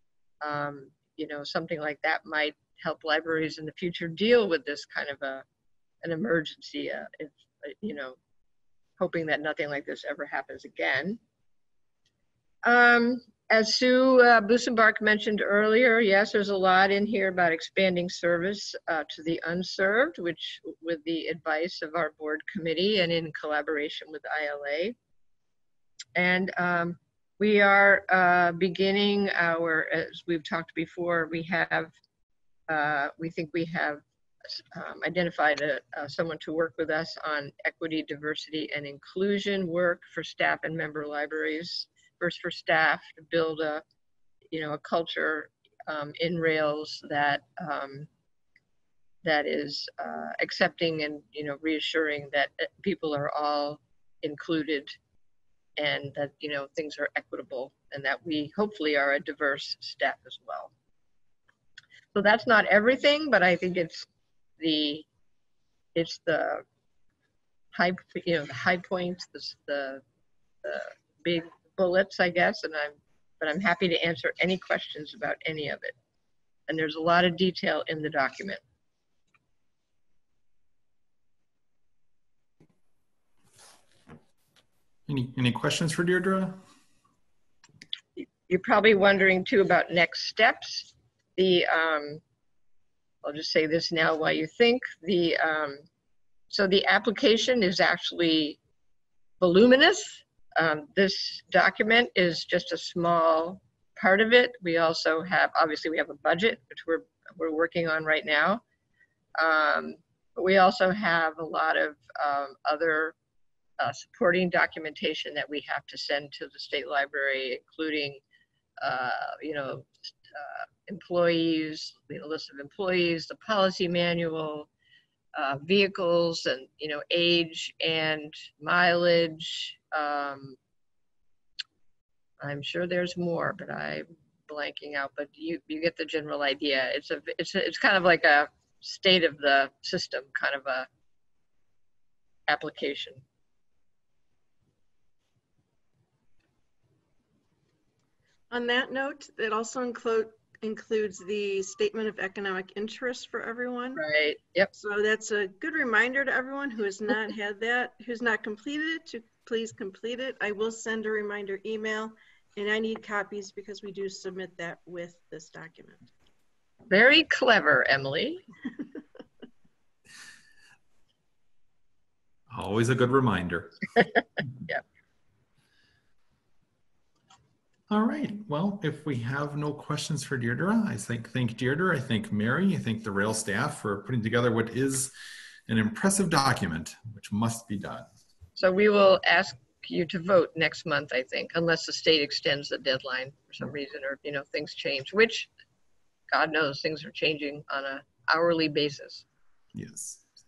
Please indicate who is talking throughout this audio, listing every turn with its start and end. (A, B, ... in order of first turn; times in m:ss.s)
0:00.4-0:05.4 A
0:06.0-0:08.2 A
0:09.0-0:11.2 A
0:12.6-0:25.0 A
0:26.2-0:31.9 A
0:32.7-0:34.0 A
0:34.5-0:43.8 A
0:44.5-0:48.1 A
0:49.2-0:55.0 A
0:55.8-1:00.7 A
1:02.1-1:04.1 A
1:04.6-1:05.0 A
1:05.9-1:06.6 A
1:07.7-1:10.0 A
1:10.6-1:15.9 A
1:16.7-1:18.6 A
1:25.1-1:26.6 B
1:28.2-1:32.2 A
1:33.2-1:35.8 A
1:36.5-1:38.6 A
1:39.4-1:48.6 A
1:49.4-1:53.1 A
1:53.8-1:58.2 A
1:58.8-2:04.7 A
2:05.3-2:10.6 A
2:12.4-2:20.9 A
2:22.5-2:23.2 A
2:28.5-2:34.0 C
2:34.0-2:34.7 A
2:34.8-2:46.1 C
2:46.9-2:48.4 A
2:52.5-2:53.8 B
2:57.9-3:05.1 B
3:05.7-3:08.1 B
3:08.6-3:15.5 A
3:16.3-3:19.2 A
3:19.7-3:20.2 B